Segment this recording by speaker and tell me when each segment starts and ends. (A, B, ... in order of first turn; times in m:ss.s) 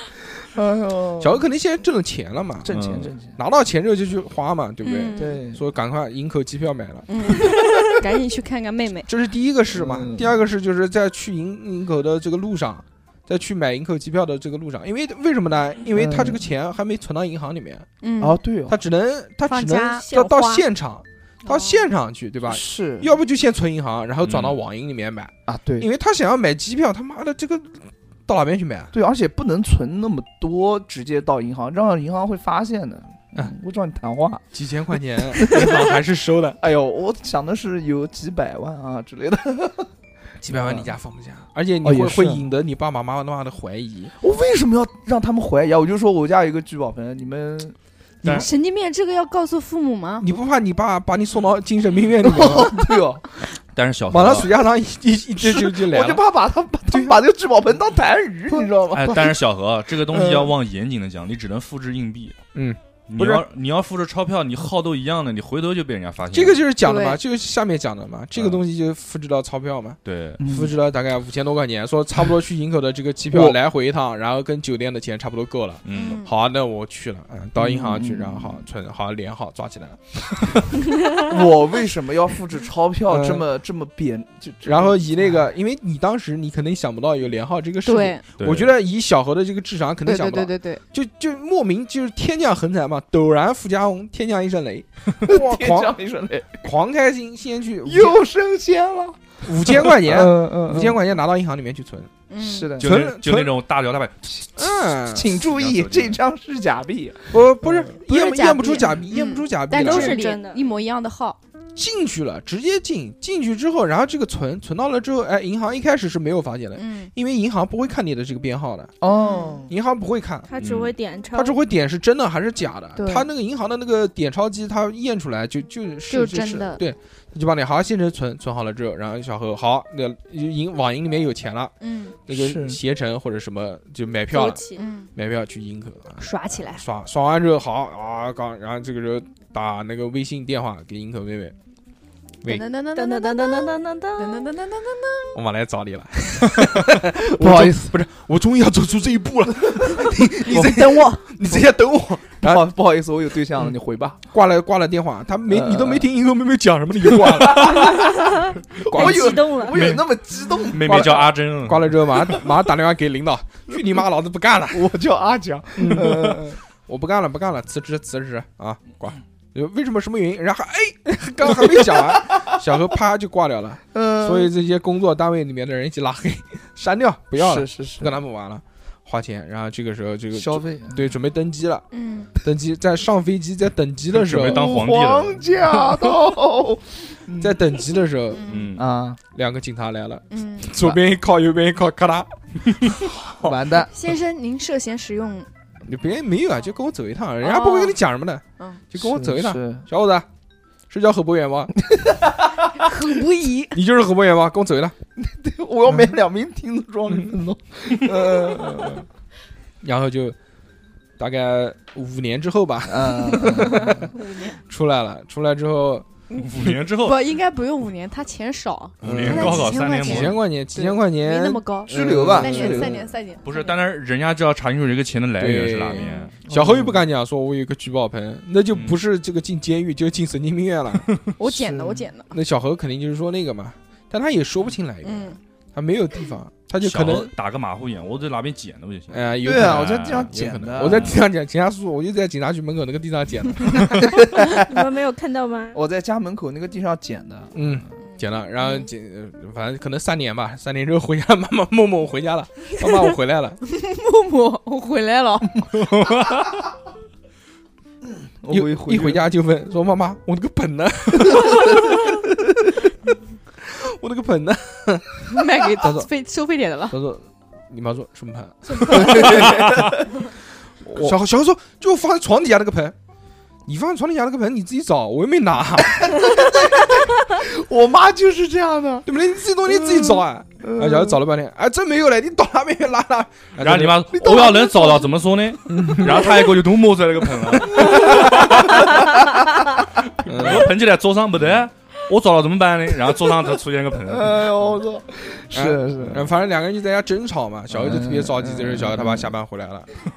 0:00.4-0:01.4 A
0:01.2-0:02.7 B
0:02.6-0:03.4 A
0:02.7-0:03.1 C
0:03.4-0:07.1 B
0:04.8-0:05.4 D
0:05.2-0:05.6 A
0:07.1-0:09.1 D
0:09.1-0:17.9 B
0:09.7-0:10.3 A
0:15.9-0:16.4 A
0:18.0-0:18.4 D
0:18.2-0:18.8 A
0:18.7-0:28.9 B
0:19.5-0:20.1 D
0:20.0-0:20.6 E
0:21.4-0:21.9 D
0:22.5-0:23.1 A
0:24.2-0:24.6 C
0:25.5-0:25.9 A
0:28.9-0:34.4 A
0:34.5-0:36.6 B
0:35.4-0:35.8 A
0:36.6-0:39.9 A
0:40.4-0:44.1 B
0:40.5-0:40.9 A
0:41.8-0:42.4 A
0:44.2-0:47.8 A
0:48.2-0:50.3 D
0:50.2-0:52.8 B
0:52.2-0:53.3 A
0:53.7-0:54.5 C
0:54.1-0:56.2 B
0:55.4-0:59.4 A
0:56.9-0:57.2 B
0:58.9-1:02.4 C
1:00.1-1:00.5 A
1:02.5-1:03.4 B
1:03.1-1:06.6 C
1:06.3-1:20.6 B
1:06.8-1:07.2 D
1:08.3-1:08.6 C
1:10.0-1:10.4 C
1:10.4-1:10.7 A
1:15.8-1:16.2 C
1:15.9-1:16.3 D
1:17.6-1:18.6 A
1:21.2-1:25.4 A
1:23.1-1:23.4 B
1:24.6-1:36.0 B
1:27.8-1:28.2 D
1:28.4-1:28.7 C
1:30.0-1:30.8 D
1:35.2-1:36.6 A
1:36.5-1:38.2 B
1:37.8-1:41.1 A
1:39.4-1:42.1 B
1:42.3-1:42.8 D
1:42.4-1:42.9 A
1:42.8-1:44.3 C
1:42.8-1:43.6 B
1:44.6-1:45.3 B
1:45.1-1:47.8 A
1:45.3-1:46.2 C
1:47.3-1:50.2 B
1:48.1-1:51.4 D
1:49.7-1:50.7 E
1:51.8-1:58.9 B
1:56.8-1:57.1 D
1:59.0-1:59.7 A
1:59.2-1:59.7 D
1:59.7-2:00.5 B
2:00.5-2:01.6 E
2:00.6-2:00.9 C
2:01.3-2:11.7 B
2:03.0-2:03.3 D
2:06.1-2:06.8 D
2:11.8-2:12.2 D
2:12.3-2:14.6 B
2:12.3-2:12.8 A
2:14.3-2:14.8 E
2:14.7-2:15.1 D
2:15.1-2:21.5 B
2:16.2-2:16.8 D
2:22.4-2:25.4 D
2:22.9-2:24.5 E
2:25.3-2:32.6 B
2:27.3-2:27.9 A
2:30.2-2:31.6 A
2:32.4-2:34.2 A
2:34.3-2:38.1 B
2:35.5-2:36.1 A
2:37.1-2:38.1 A
2:38.8-2:41.2 A
2:38.9-2:39.4 B
2:38.9-2:39.8 E
2:39.7-2:40.0 C
2:40.6-2:42.0 C
2:40.8-2:44.8 B
2:44.7-2:46.6 A
2:45.8-3:01.8 B
2:51.5-2:52.4 A
2:53.9-2:54.5 A
2:57.4-2:58.1 A
3:00.3-3:01.0 A
3:01.9-3:02.3 D
3:02.4-3:04.6 B
3:04.1-3:06.1 C
3:04.4-3:07.6 A
3:07.4-3:08.4 B
3:08.4-3:08.8 D
3:08.4-3:08.8 C
3:08.8-3:09.2 A
3:09.3-3:12.3 B
3:10.3-3:10.8 D
3:13.0-3:13.6 C
3:13.4-3:13.9 A
3:13.9-3:15.5 D
3:15.8-3:20.2 B
3:17.4-3:18.0 D
3:19.0-3:19.8 A
3:20.9-3:21.7 B
3:21.9-3:22.3 A
3:22.8-3:23.8 D
3:23.7-3:24.9 B
3:25.2-3:29.0 A
3:29.8-3:30.4 B
3:31.2-3:34.1 B
3:32.9-3:33.9 A
3:33.7-3:34.6 D
3:34.7-3:36.1 B
3:36.3-3:43.7 D
3:36.4-3:37.2 C
3:39.0-3:40.3 C
3:39.0-3:43.0 B
3:41.9-3:43.1 A
3:43.4-3:46.3 C
3:45.4-3:51.1 B
3:45.9-3:46.3 D
3:46.4-3:47.0 A
3:48.7-3:49.0 C
3:51.4-3:52.3 D
3:51.5-3:52.1 A
3:52.3-3:57.3 B
3:55.0-3:55.4 D
3:56.8-4:00.3 C
3:59.1-4:04.0 B
3:59.4-4:01.1 A
4:03.8-4:04.8 A
4:04.5-4:05.8 E
4:05.7-4:07.5 A
4:07.5-4:13.6 B
4:08.6-4:08.9 D
4:13.6-4:15.7 D
4:15.7-4:16.6 C
4:18.4-4:19.2 A
4:18.5-4:22.2 B
4:23.6-4:26.1 B
4:25.3-4:27.0 D
4:26.9-4:29.7 B
4:28.8-4:30.0 A
4:29.4-4:29.9 C
4:31.0-4:32.9 B
4:33.7-4:36.1 B
4:35.9-4:39.1 A
4:39.0-4:44.0 B
4:39.7-4:41.2 A
4:43.6-4:54.8 C
4:44.1-4:45.1 A
4:45.8-4:46.2 B
4:45.8-4:46.5 A
4:47.8-4:48.7 A
4:50.2-4:50.7 B
4:54.1-4:56.2 A
4:55.5-4:59.9 B
4:56.0-4:56.3 C
4:57.7-4:59.3 A